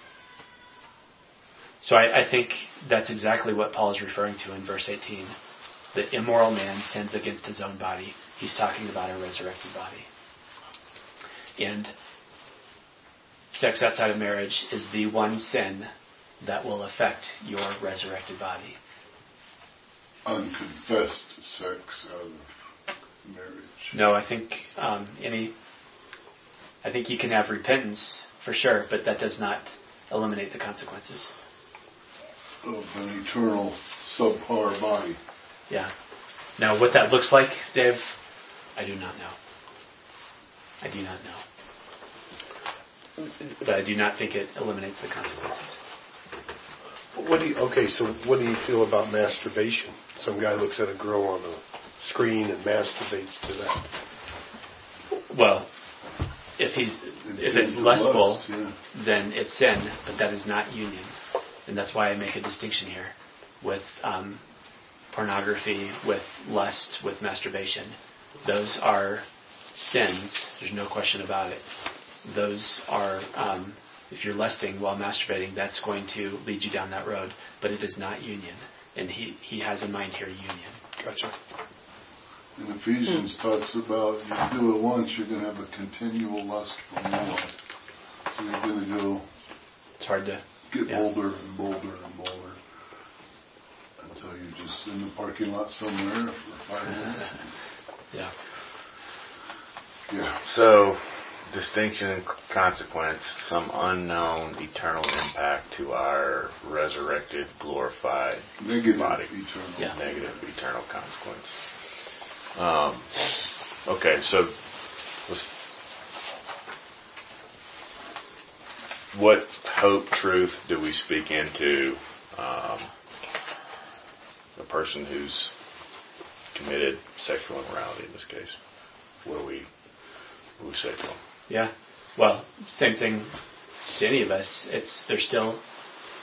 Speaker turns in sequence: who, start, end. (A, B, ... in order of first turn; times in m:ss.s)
0:01.8-0:05.4 A
0:05.9-0:10.1 A
0:11.6-0:11.9 A
0:13.5-0:18.8 A
0:20.2-0:22.6 B
0:23.2-0:23.9 B
0:23.9-0:25.5 A
0:26.8-0:31.3 A
0:32.6-0:35.2 B
0:36.6-0:38.1 A
0:38.8-0:39.4 A
0:40.8-0:41.4 A
0:43.6-0:45.8 A
0:47.1-0:53.9 C
0:55.1-0:55.7 A
0:56.6-1:01.1 A
0:57.2-0:58.8 B
1:01.6-1:04.4 A
1:05.1-1:11.6 A
1:12.2-1:20.8 A
1:21.0-1:21.3 C
1:22.6-1:27.5 B
1:28.3-1:29.3 B
1:30.0-1:31.0 A
1:30.7-1:32.6 B
1:34.0-1:37.5 B
1:40.1-1:40.4 B
1:40.4-1:51.6 D
1:48.6-1:50.4 B
1:52.5-1:54.6 D
1:55.2-1:55.5 D
1:59.1-2:02.9 D
2:04.6-2:05.5 D
2:06.5-2:08.6 D
2:09.2-2:09.7 D
2:10.6-2:11.2 D
2:11.5-2:13.3 A
2:13.9-2:15.6 A